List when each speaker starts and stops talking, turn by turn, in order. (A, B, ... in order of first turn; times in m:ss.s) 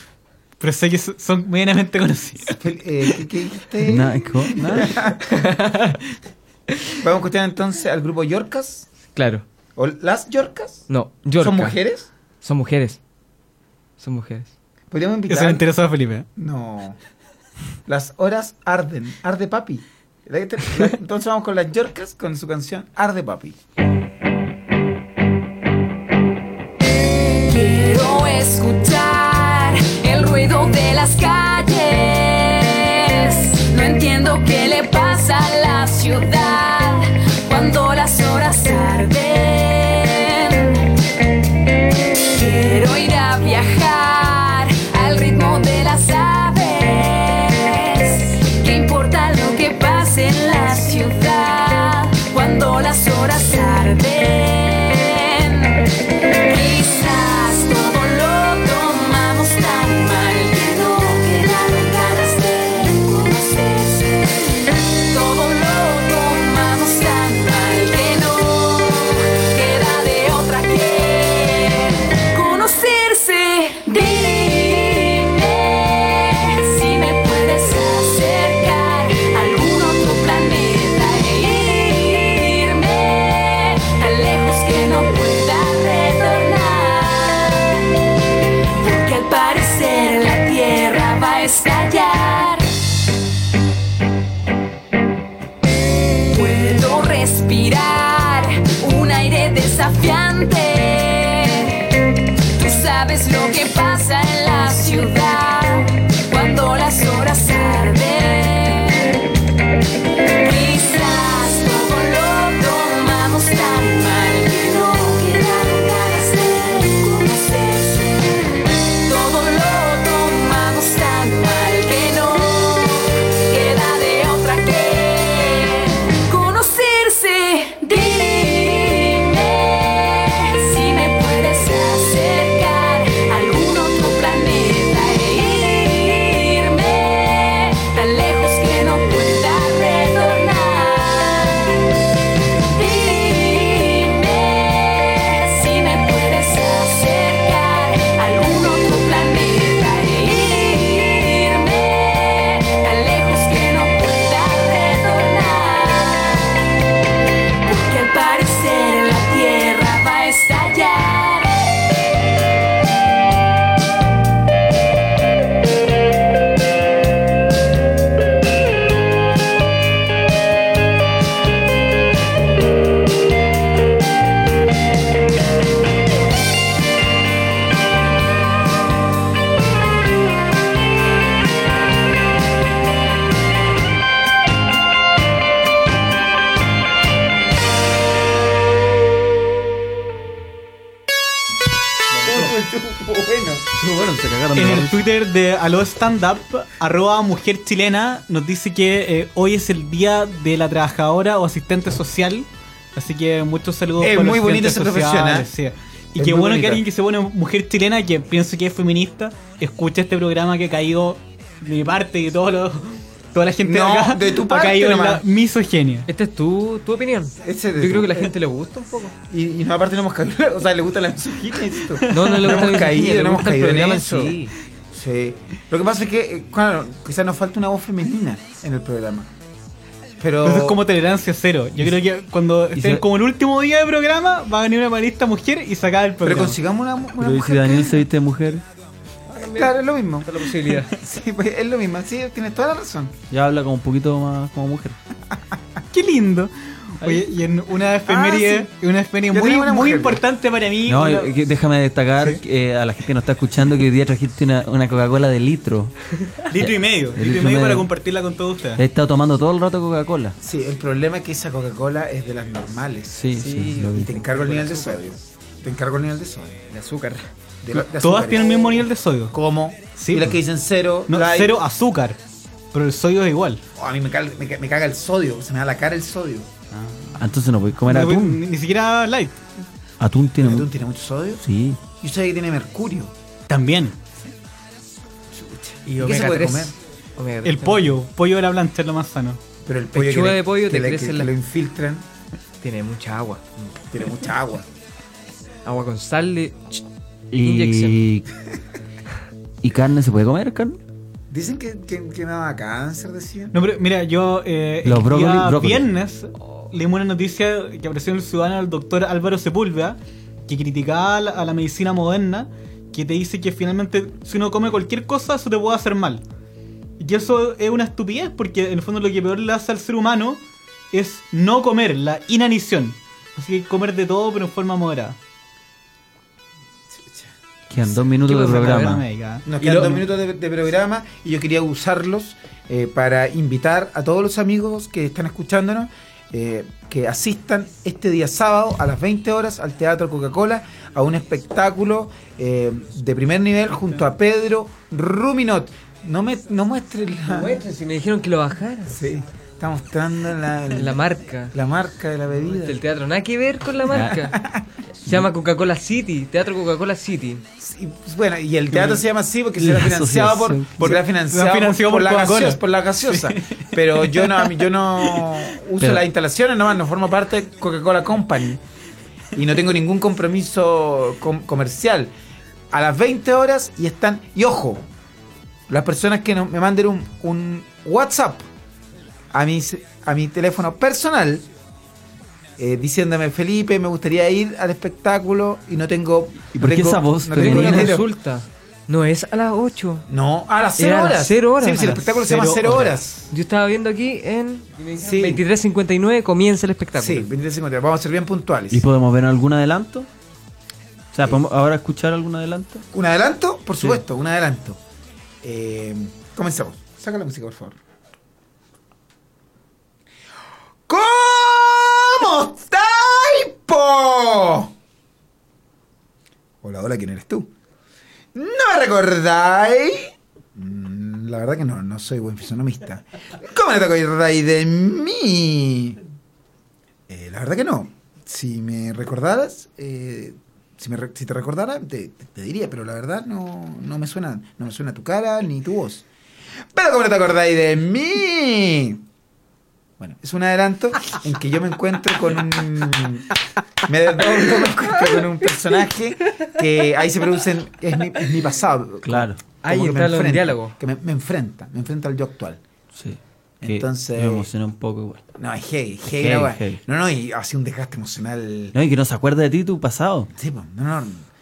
0:00.6-0:02.6 A
0:02.5-0:05.2 B
0:03.8-0:05.0 C
0:05.3-0:06.0 D
0:07.0-0:08.9 B
0:09.2-0:09.4 D
0:09.8-0:10.8 B
0:10.9-0:11.8 D
0:11.4-0:12.1 B
0:12.4-0:13.0 D
0:14.0-0:14.5 D
0:14.9-0:15.6 B
0:15.3-0:16.3 A
0:16.4-0:17.0 B
0:17.9-0:23.6 B
0:27.4-0:40.8 E
0:42.3-0:55.9 E
0:56.4-1:27.9 E
1:28.8-1:32.7 E
1:36.3-1:41.8 E
1:42.6-1:49.2 E
1:50.4-2:21.8 E
2:22.6-2:36.6 E
2:37.6-2:41.9 E
3:12.2-3:13.6 B
3:13.7-3:15.0 C
3:14.6-3:36.1 A
3:24.0-3:25.5 B
3:26.2-3:26.8 B
3:33.6-3:35.2 B
3:36.1-3:39.2 D
3:37.4-3:38.3 B
3:39.3-3:44.4 B
3:42.1-3:44.5 D
3:42.1-3:42.5 A
3:44.1-3:44.5 C
3:44.9-3:49.3 B
3:50.2-3:50.8 B
3:50.4-3:56.6 A
3:52.8-3:53.0 C
3:56.2-3:58.0 B
3:57.2-3:58.6 C
3:59.3-4:00.9 D
3:59.4-4:03.1 B
4:03.3-4:05.0 C
4:05.9-4:11.3 A
4:08.1-4:08.7 B
4:09.3-4:10.2 B
4:10.9-4:15.9 C
4:16.5-4:18.8 A
4:16.5-4:17.9 C
4:18.8-4:20.4 C
4:20.4-4:23.3 B
4:23.1-4:24.2 C
4:23.3-4:25.2 D
4:23.9-4:26.6 B
4:26.7-4:27.3 D
4:27.6-4:31.6 B
4:27.8-4:29.3 A
4:30.0-4:30.4 A
4:31.1-4:32.2 A
4:32.7-4:33.6 A
4:33.8-4:36.5 B
4:36.7-4:37.2 A
4:37.2-4:38.4 C
4:37.8-4:39.4 A
4:40.0-4:40.7 C
4:40.4-4:43.1 B
4:41.4-4:41.8 C
4:43.5-4:44.0 A
4:45.3-4:46.8 B
4:45.9-4:47.9 D
4:47.4-4:49.4 A
4:49.6-4:52.0 B
4:50.0-4:51.3 D
4:52.6-4:53.4 D
4:53.9-4:54.7 B
4:55.6-4:56.8 D
4:57.3-4:58.3 C
4:57.4-4:58.0 D
4:59.6-5:00.8 C
5:01.3-5:03.5 B
5:03.5-5:16.2 A
5:04.8-5:05.9 C
5:17.0-5:20.4 A
5:20.9-5:25.2 A
5:26.9-5:27.3 B
5:27.7-5:29.0 C
5:28.2-5:30.0 A
5:29.5-5:47.6 B
5:47.3-5:49.0 D
5:48.9-5:52.8 B
5:50.7-5:51.6 D
5:52.4-5:54.4 D
5:53.9-5:54.4 C
5:54.3-5:54.6 B
5:55.0-5:57.4 D
5:57.6-6:08.6 B
5:58.7-5:59.0 A
5:59.6-6:01.0 C
6:00.8-6:04.5 A
6:05.8-6:06.1 C
6:09.3-6:12.1 B
6:12.7-6:14.9 B
6:15.7-6:18.5 B
6:19.3-6:21.5 B
6:22.6-6:28.1 B
6:26.6-6:28.0 C
6:27.4-6:30.0 D
6:30.1-6:33.3 B
6:30.8-6:32.5 D
6:32.2-6:33.0 A
6:33.3-6:37.3 D
6:35.0-6:35.4 B
6:37.0-6:38.9 B
6:38.7-6:40.1 C
6:41.1-6:42.8 C
6:42.9-6:44.8 B
6:45.4-6:47.8 B
6:50.9-6:54.7 B
6:56.6-6:57.5 B
6:58.4-7:06.0 B
7:07.1-7:16.0 B
7:16.7-7:19.0 B
7:20.0-7:23.3 B
7:23.8-7:32.6 B
7:29.0-7:29.4 C
7:29.6-7:30.7 D
7:32.9-7:35.2 C
7:33.6-7:34.5 B
7:35.4-7:38.8 B
7:36.1-7:36.8 C
7:38.7-7:40.3 C
7:40.4-7:41.3 B